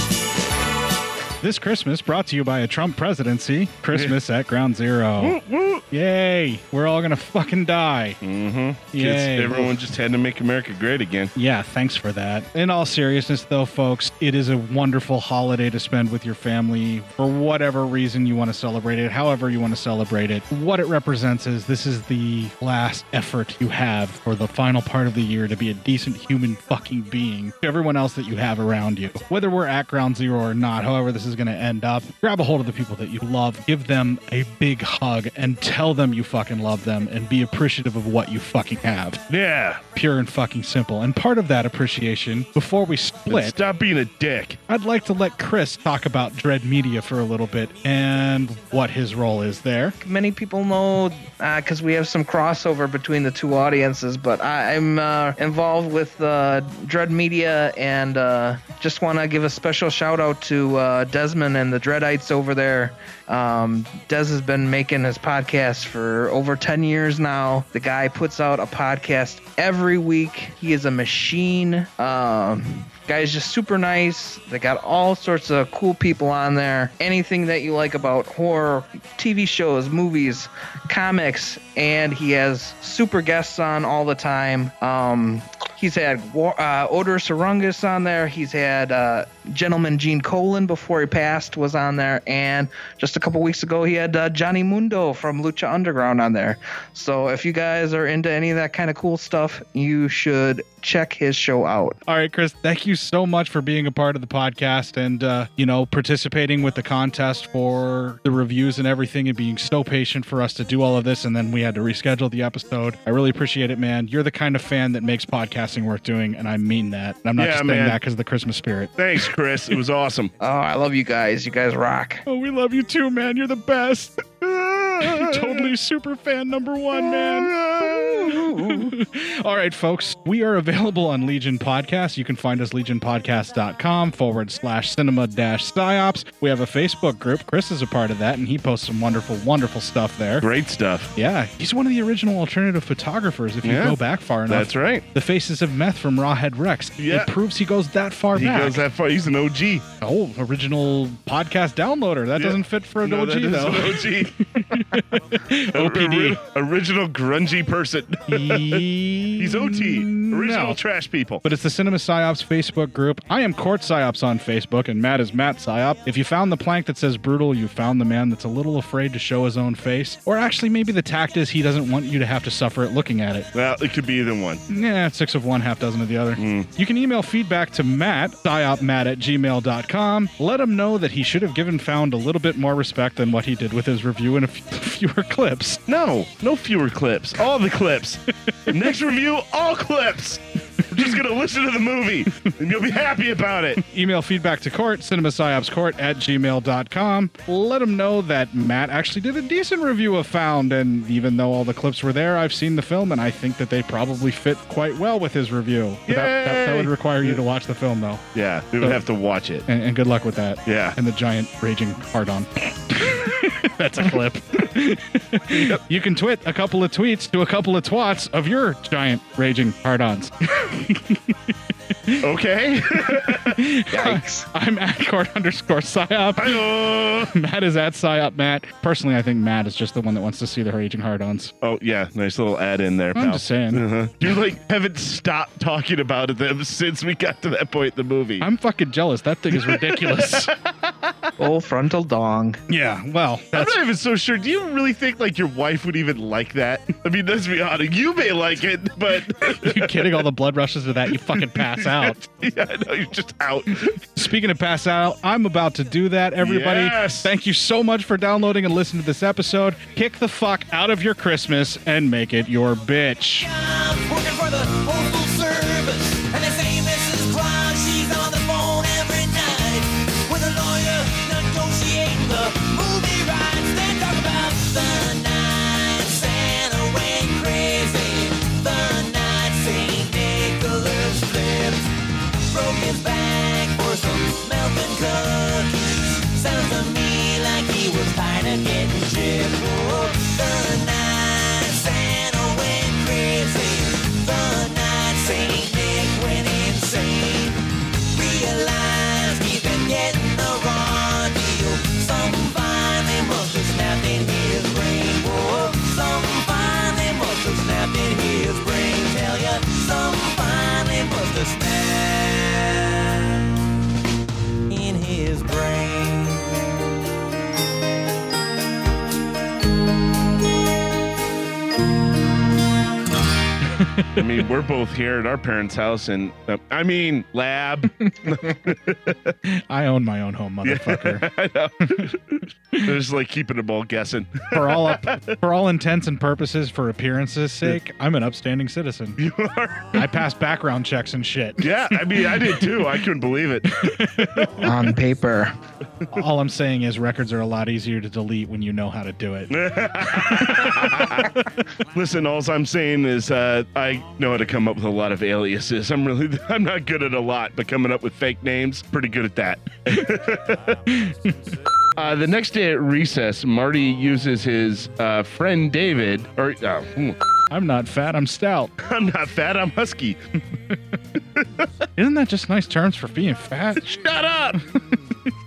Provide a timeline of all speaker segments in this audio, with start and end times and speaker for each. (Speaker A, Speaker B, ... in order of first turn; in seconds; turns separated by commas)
Speaker A: 1.4-5.4, Speaker B: 5.2-5.8, Speaker A: 5.9-8.2, Speaker B: 8.2-11.3, Speaker A: 8.9-9.7, Speaker A: 11.3-39.2, Speaker B: 39.3-39.8, Speaker A: 39.9-43.6, Speaker B: 43.3-44.6, Speaker A: 44.7-50.0, Speaker C: 50.0-102.0, Speaker A: 102.0-119.0, Speaker B: 117.4-118.0, Speaker B: 119.0-120.3, Speaker C: 120.4-122.2, Speaker A: 122.2-124.2, Speaker B: 124.4-125.7, Speaker A: 125.0-127.6, Speaker B: 127.2-128.3, Speaker C: 127.9-128.9, Speaker A: 128.5-140.4, Speaker B: 140.4-141.1, Speaker A: 141.2-148.8, Speaker B: 143.6-145.0, Speaker B: 147.0-147.3, Speaker B: 148.3-149.8, Speaker A: 150.0-156.4, Speaker B: 152.4-154.3, Speaker B: 155.7-161.4, Speaker A: 158.3-160.8, Speaker A: 161.4-173.5, Speaker B: 173.5-174.6, Speaker A: 174.7-185.8, Speaker B: 176.4-176.7, Speaker B: 185.9-193.8, Speaker A: 188.7-188.9, Speaker A: 193.8-208.2, Speaker B: 206.1-207.4, Speaker B: 208.3-209.7, Speaker A: 209.7-221.5, Speaker B: 210.7-210.9, Speaker B: 215.5-215.8, Speaker B: 222.2-223.6, Speaker A: 223.4-231.5, Speaker C: 223.9-224.4, Speaker B: 226.4-227.3, Speaker B: 231.6-238.5, Speaker A: 233.1-233.8, Speaker A: 238.4-240.5, Speaker B: 239.6-240.5, Speaker C: 241.4-242.6, Speaker A: 242.7-243.8, Speaker B: 243.5-250.2, Speaker A: 249.5-252.2, Speaker B: 251.3-253.9, Speaker A: 253.7-263.5, Speaker B: 256.4-257.3, Speaker D: 263.4-281.9, Speaker D: 282.5-313.3, Speaker D: 314.7-316.5, Speaker A: 323.7-324.1, Speaker B: 324.1-329.3, Speaker A: 329.5-331.2, Speaker B: 330.6-335.2, Speaker A: 331.8-332.1, Speaker A: 334.5-339.2, Speaker B: 339.2-340.1, Speaker A: 339.9-342.9, Speaker B: 341.6-344.0, Speaker A: 343.7-344.7, Speaker C: 344.6-345.6, Speaker A: 346.1-349.6, Speaker B: 349.5-351.2, Speaker A: 350.1-351.3, Speaker B: 351.9-360.8, Speaker A: 360.9-361.3, Speaker B: 361.9-367.2, Speaker A: 367.5-368.7, Speaker B: 368.8-370.2, Speaker A: 371.9-374.0, Speaker B: 373.8-374.6